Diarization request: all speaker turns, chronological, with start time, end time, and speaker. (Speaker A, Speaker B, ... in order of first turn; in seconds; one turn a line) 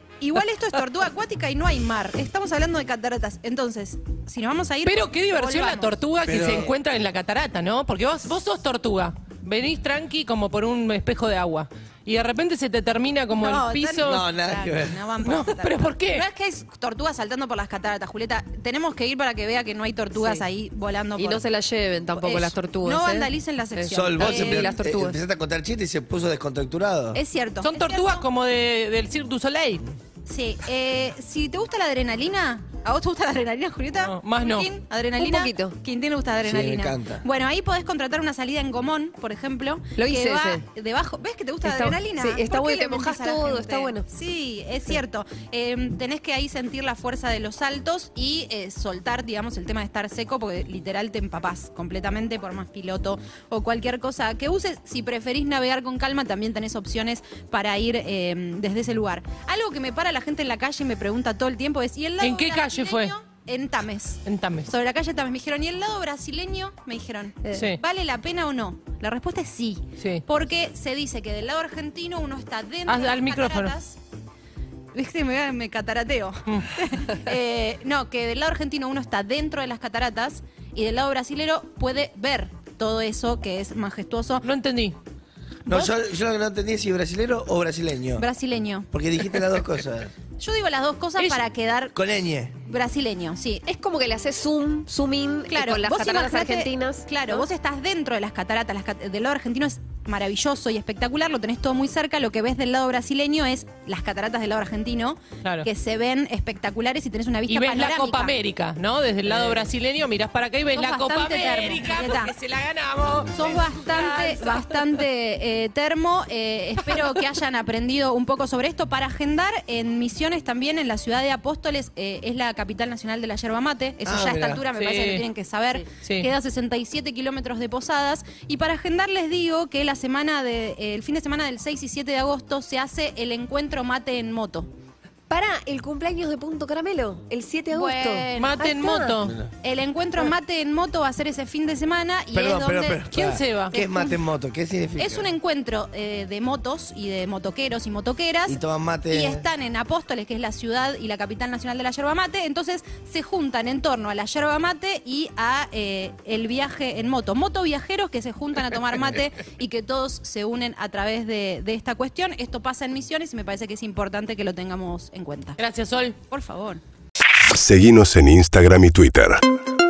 Speaker A: 0.2-6.0
Speaker B: 4.8-14.3
Speaker C: 6.2-6.8
Speaker A: 13.3-21.4
Speaker C: 14.0-15.0
Speaker B: 15.2-16.3
Speaker D: 20.1-20.4
Speaker D: 21.1-25.2
Speaker A: 22.1-24.7
Speaker C: 23.9-27.2
Speaker A: 27.1-28.3
Speaker B: 27.6-29.8
Speaker A: 30.2-74.0
Speaker B: 34.0-34.7
Speaker D: 35.2-35.8
Speaker C: 36.4-37.2
Speaker D: 40.0-40.6
Speaker D: 41.6-44.1
Speaker B: 62.2-63.1
Speaker B: 64.2-64.7
Speaker B: 67.5-67.8
Speaker B: 70.0-70.2
Speaker B: 72.9-73.7
Speaker A: 74.9-84.5
Speaker B: 84.4-85.0
Speaker C: 85.7-88.3
Speaker A: 88.2-88.9
Speaker C: 88.9-90.1
Speaker A: 90.4-92.0
Speaker C: 92.0-92.6
Speaker A: 92.6-93.7
Speaker D: 93.7-97.4
Speaker A: 95.5-108.3
Speaker B: 105.4-105.7
Speaker B: 107.5-114.8
Speaker A: 109.3-109.7
Speaker A: 110.7-112.3
Speaker A: 113.3-134.7
Speaker C: 124.0-124.7
Speaker B: 124.7-125.2
Speaker B: 126.0-126.3
Speaker D: 135.3-139.2
Speaker A: 137.7-138.6
Speaker B: 138.4-139.4
Speaker C: 139.2-139.5
Speaker A: 139.6-143.1
Speaker C: 142.3-145.3
Speaker B: 143.1-143.8
Speaker A: 143.7-144.3
Speaker A: 145.0-165.6
Speaker C: 148.5-149.5
Speaker B: 165.6-166.2
Speaker A: 166.3-166.8
Speaker E: 167.5-169.4